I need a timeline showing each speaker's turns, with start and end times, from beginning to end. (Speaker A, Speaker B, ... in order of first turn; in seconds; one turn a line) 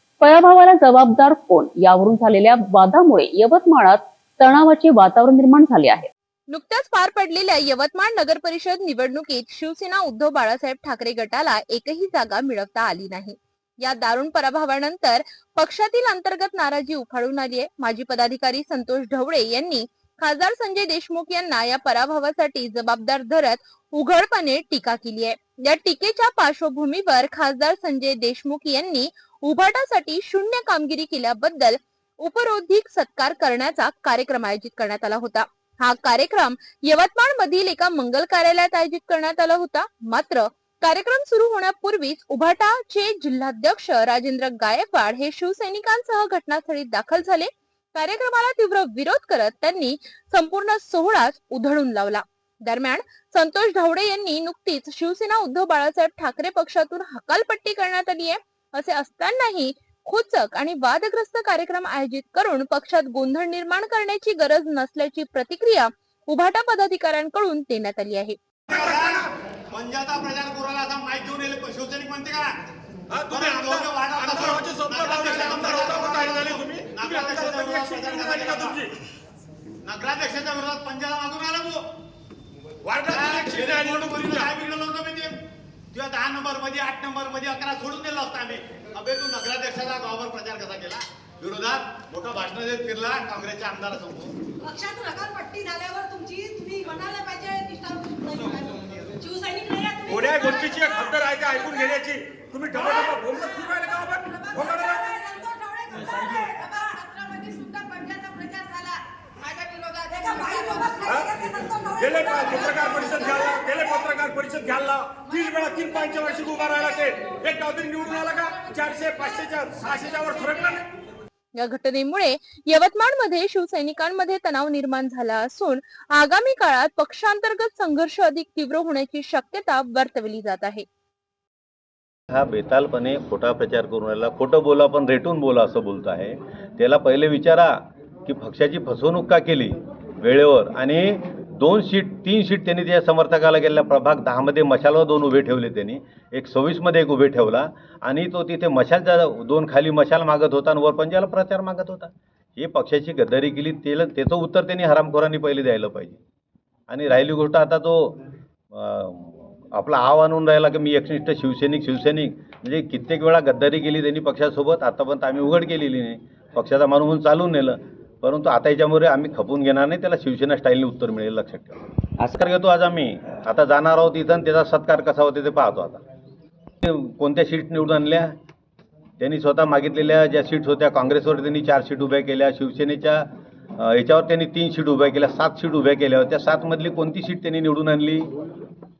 Speaker A: 0.2-6.1
Speaker B: 6.5-68.4
Speaker C: 68.7-72.5
Speaker D: 68.7-69.0
Speaker D: 73.1-78.9
Speaker C: 73.2-78.8
Speaker C: 79.8-81.8
Speaker D: 82.8-84.5
Speaker C: 83.1-85.4
Speaker C: 85.9-94.3
Speaker E: 94.7-100.0
Speaker D: 100.0-105.4
Speaker E: 105.2-111.0
Speaker D: 106.1-106.5
Speaker D: 110.4-120.9
Speaker B: 121.6-130.8
Speaker F: 132.3-156.2
Speaker F: 156.9-176.0
Speaker F: 176.8-178.3
Speaker F: 179.2-188.3